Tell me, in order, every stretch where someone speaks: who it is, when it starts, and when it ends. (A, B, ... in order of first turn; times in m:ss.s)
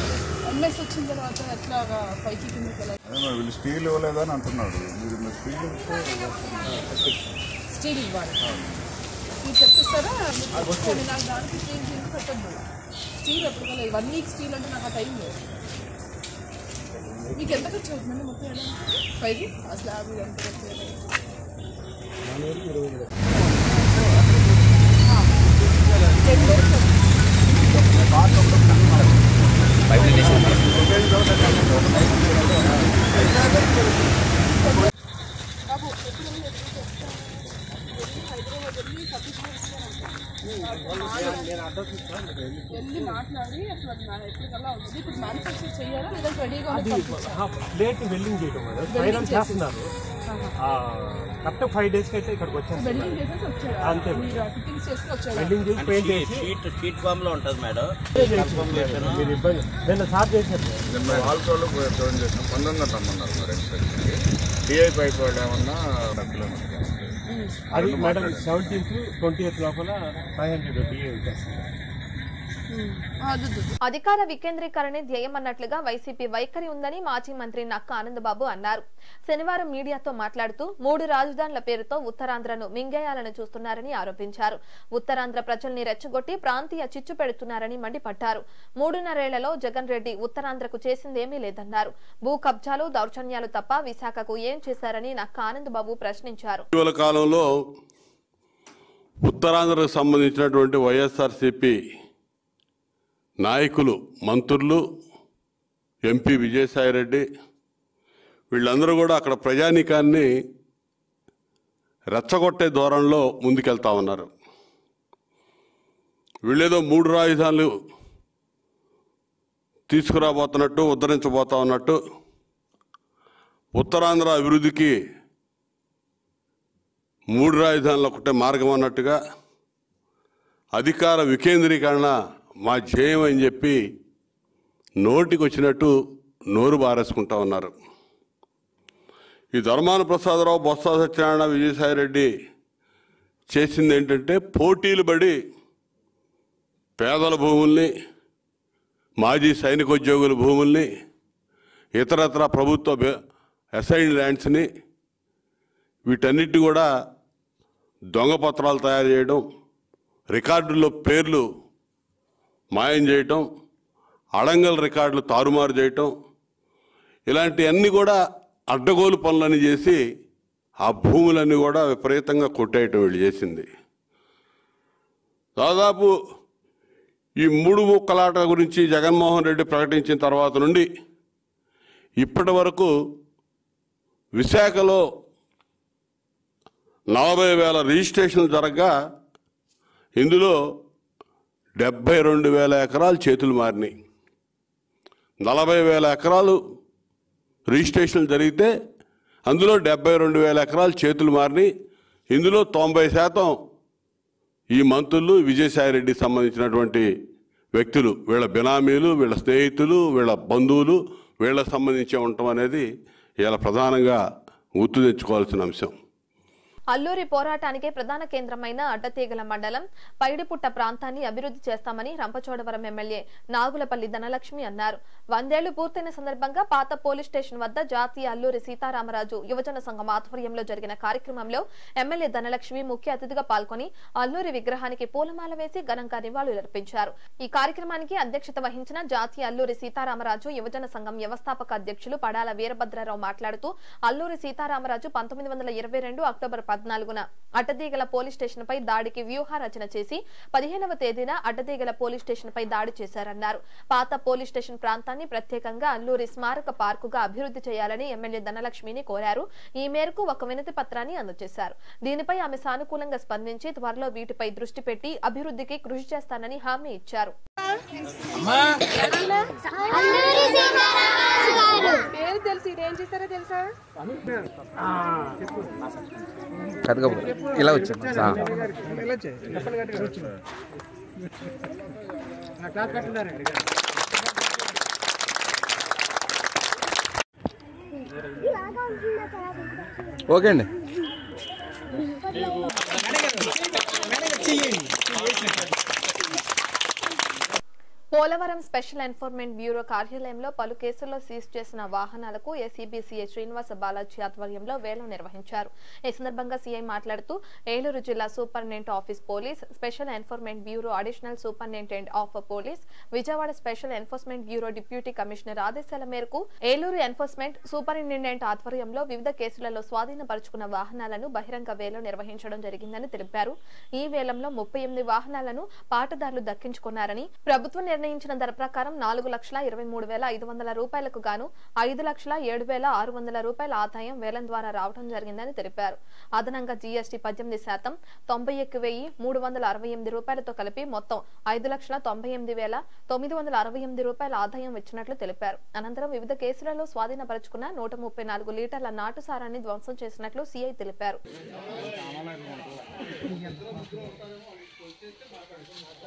0:00.5-0:02.9 A
0:03.0-0:07.1 B
0:07.7-0:08.4 A
0:09.4-0:12.6 A
0:13.2-0:15.4 A
0:17.3-0:21.1 A
0:22.4-0:23.0 C
0:26.2-0:27.0 A
0:28.1-0:29.1 B
0:34.5-0:34.9 A
0:35.7-0:41.7 A
0:42.7-0:47.4 A
0:46.7-0:49.8 C
0:48.9-0:49.7 A
0:50.3-0:50.5 A
0:51.4-0:53.2 C
0:52.7-0:55.6 A
0:53.8-0:54.3 C
0:55.4-0:56.6 C
0:55.8-0:59.2 D
0:58.1-1:01.3 C
1:00.9-1:04.1 B
1:04.7-1:07.1 B
1:07.3-1:07.6 A
1:07.7-1:08.8 B
1:07.7-1:11.6 C
1:12.7-1:13.7 A
1:13.8-1:36.7 E
1:36.7-1:37.4 F
1:39.2-1:41.8 F
1:43.4-1:44.8 F
1:46.0-1:47.2 F
1:48.5-1:50.3 F
1:52.1-1:54.3 F
1:56.5-1:57.7 F
1:59.9-2:02.0 F
2:03.8-2:04.9 F
2:07.3-2:09.2 F
2:10.8-2:13.8 F
2:15.0-2:15.9 F
2:16.5-2:17.7 F
2:19.5-2:22.3 F
2:23.5-2:25.4 F
2:27.0-2:27.9 F
2:29.2-2:30.9 F
2:32.0-2:33.2 F
2:33.7-2:34.7 F
2:36.1-2:36.9 F
2:38.1-2:39.4 F
2:40.3-2:41.4 F
2:42.7-2:43.4 F
2:44.4-2:46.1 F
2:47.3-2:48.2 F
2:48.7-2:50.0 F
2:50.8-2:53.7 F
2:55.6-2:56.1 F
2:57.4-3:00.9 F
3:02.2-3:02.9 F
3:04.4-3:05.0 F
3:07.1-3:08.9 F
3:10.2-3:10.6 F
3:11.8-3:13.9 F
3:15.4-3:16.6 F
3:17.7-3:18.7 F
3:19.5-3:21.7 F
3:22.3-3:23.6 F
3:24.7-3:27.0 F
3:27.7-3:32.8 F
3:33.4-3:34.2 F
3:34.8-3:35.9 F
3:36.9-4:27.4 E
4:36.8-4:38.4 G
4:50.3-4:50.7 G
4:58.1-5:51.2 E